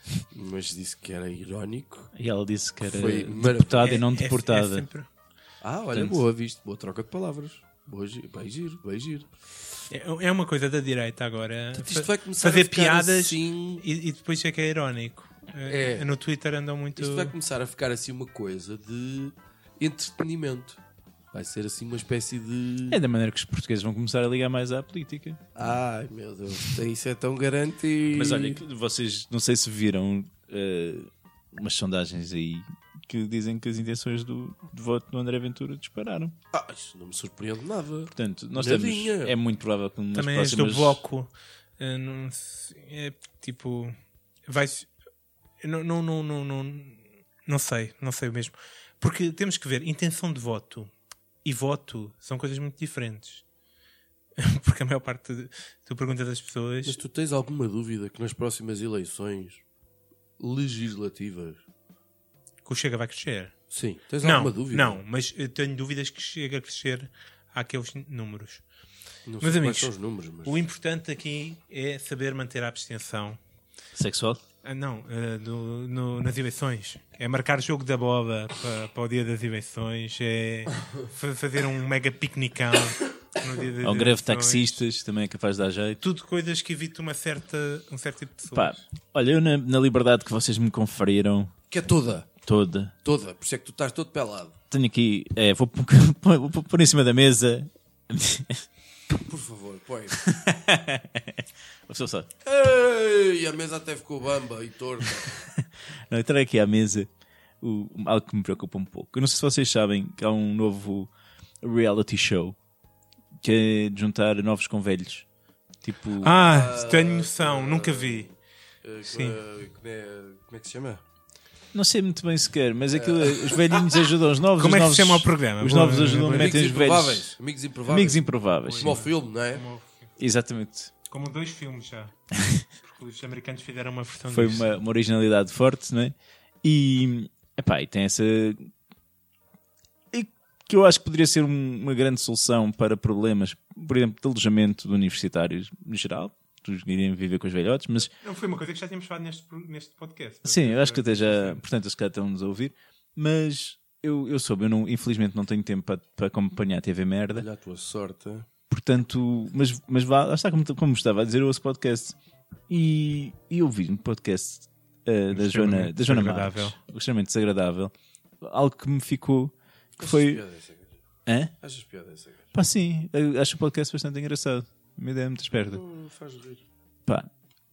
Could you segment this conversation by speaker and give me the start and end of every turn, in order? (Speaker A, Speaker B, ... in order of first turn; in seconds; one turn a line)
Speaker A: 0.3-2.1
Speaker B: 2.1-4.9
Speaker A: 2.8-3.9
Speaker C: 3.8-5.1
Speaker A: 5.6-9.3
Speaker B: 5.9-6.2
Speaker C: 9.9-17.3
Speaker A: 11.7-13.8
Speaker A: 15.7-16.1
Speaker A: 16.9-20.8
Speaker A: 21.3-23.0
Speaker B: 22.9-25.7
Speaker A: 25.5-28.6
Speaker B: 28.1-36.3
Speaker A: 36.5-39.3
Speaker B: 38.1-41.0
Speaker C: 40.1-44.0
Speaker C: 44.5-44.9
Speaker C: 45.6-50.9
Speaker C: 51.4-53.4
Speaker C: 54.4-57.0
Speaker A: 56.9-59.6
Speaker A: 60.4-61.6
Speaker C: 62.6-63.6
Speaker A: 63.7-65.0
Speaker C: 64.2-68.6
Speaker A: 69.2-70.6
Speaker C: 69.4-69.9
Speaker C: 70.4-73.4
Speaker B: 73.9-74.4
Speaker C: 74.6-84.8
Speaker B: 83.8-86.0
Speaker C: 86.0-88.8
Speaker B: 88.5-91.5
Speaker A: 91.7-92.3
Speaker B: 92.4-92.9
Speaker A: 93.0-94.5
Speaker B: 94.7-98.7
Speaker A: 99.2-100.3
Speaker B: 100.2-102.3
Speaker A: 102.4-105.4
Speaker B: 105.2-107.1
Speaker B: 107.6-111.1
Speaker B: 111.6-112.5
Speaker B: 113.4-115.2
Speaker B: 115.8-116.4
Speaker C: 116.2-118.3
Speaker A: 116.4-121.0
Speaker C: 119.0-119.4
Speaker B: 121.7-129.0
Speaker A: 122.9-123.8
Speaker C: 124.5-126.5
Speaker A: 126.3-129.6
Speaker C: 128.6-130.1
Speaker B: 130.2-130.9
Speaker C: 131.1-132.1
Speaker B: 132.3-132.6
Speaker C: 132.8-134.7
Speaker B: 134.3-138.7
Speaker B: 140.1-148.1
Speaker C: 148.2-151.6
Speaker B: 150.4-157.5
Speaker A: 157.3-158.5
Speaker B: 158.7-162.2
Speaker B: 162.7-170.4
Speaker C: 165.3-166.8
Speaker A: 170.0-171.0
Speaker B: 171.2-171.5
Speaker A: 171.6-172.5
Speaker B: 172.5-175.8
Speaker A: 175.7-176.6